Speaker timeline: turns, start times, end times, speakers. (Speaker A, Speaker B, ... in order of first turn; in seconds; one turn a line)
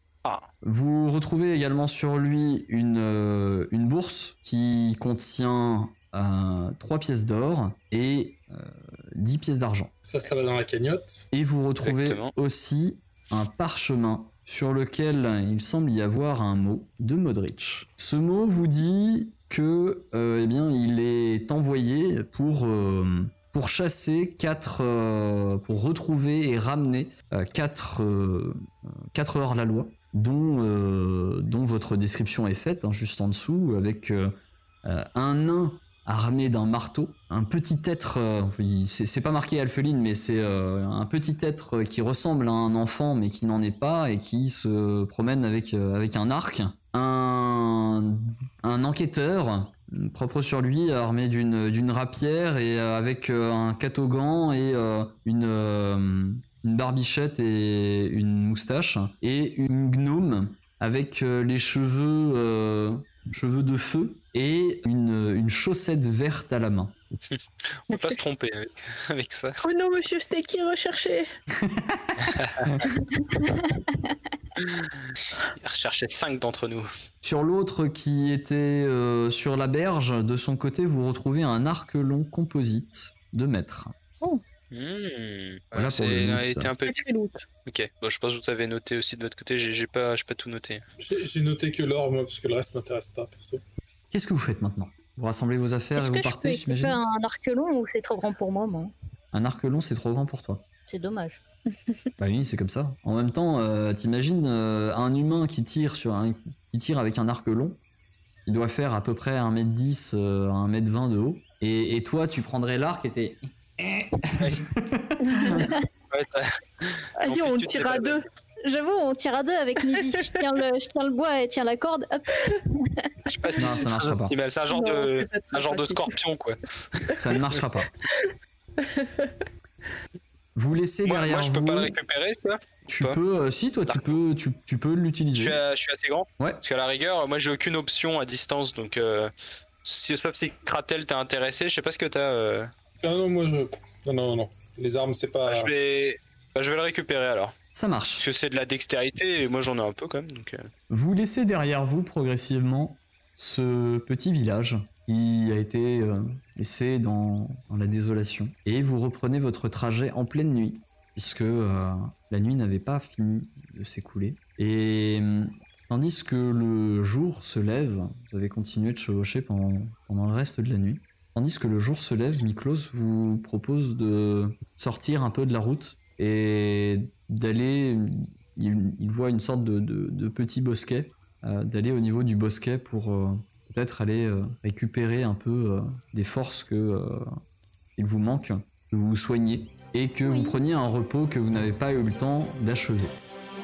Speaker A: 0.6-9.9
Speaker B: 10.0-11.3
Speaker A: 11.3-34.3
Speaker C: 11.8-12.3
Speaker A: 34.8-66.9
Speaker C: 67.3-69.6
Speaker D: 67.9-68.2
Speaker D: 69.6-71.3
Speaker A: 71.6-72.9
Speaker C: 72.2-72.7
Speaker E: 73.1-74.2
Speaker C: 74.6-76.9
Speaker A: 77.2-83.9
Speaker C: 84.7-87.0
Speaker A: 85.7-86.7
Speaker D: 86.9-87.5
Speaker C: 87.7-90.8
Speaker B: 91.0-93.6
Speaker A: 94.1-97.0
Speaker E: 96.0-98.9
Speaker A: 99.3-100.6
Speaker E: 100.9-101.4
Speaker A: 102.2-107.8
Speaker A: 108.5-115.7
Speaker C: 114.4-114.6
Speaker D: 115.2-115.7
Speaker C: 116.1-118.2
Speaker D: 117.2-118.2
Speaker E: 118.6-123.1
Speaker D: 119.9-120.4
Speaker C: 123.3-127.4
Speaker A: 123.6-124.3
Speaker D: 124.7-126.2
Speaker A: 127.2-127.9
Speaker D: 128.1-129.5
Speaker A: 130.6-131.9
Speaker C: 131.1-133.2
Speaker A: 132.9-135.6
Speaker C: 133.9-134.2
Speaker C: 135.3-139.3
Speaker C: 139.8-142.7
Speaker B: 143.0-145.7
Speaker C: 145.5-147.6
Speaker A: 147.7-148.2
Speaker C: 148.2-150.7
Speaker A: 150.9-187.3
Speaker A: 188.0-193.2
Speaker E: 190.2-190.6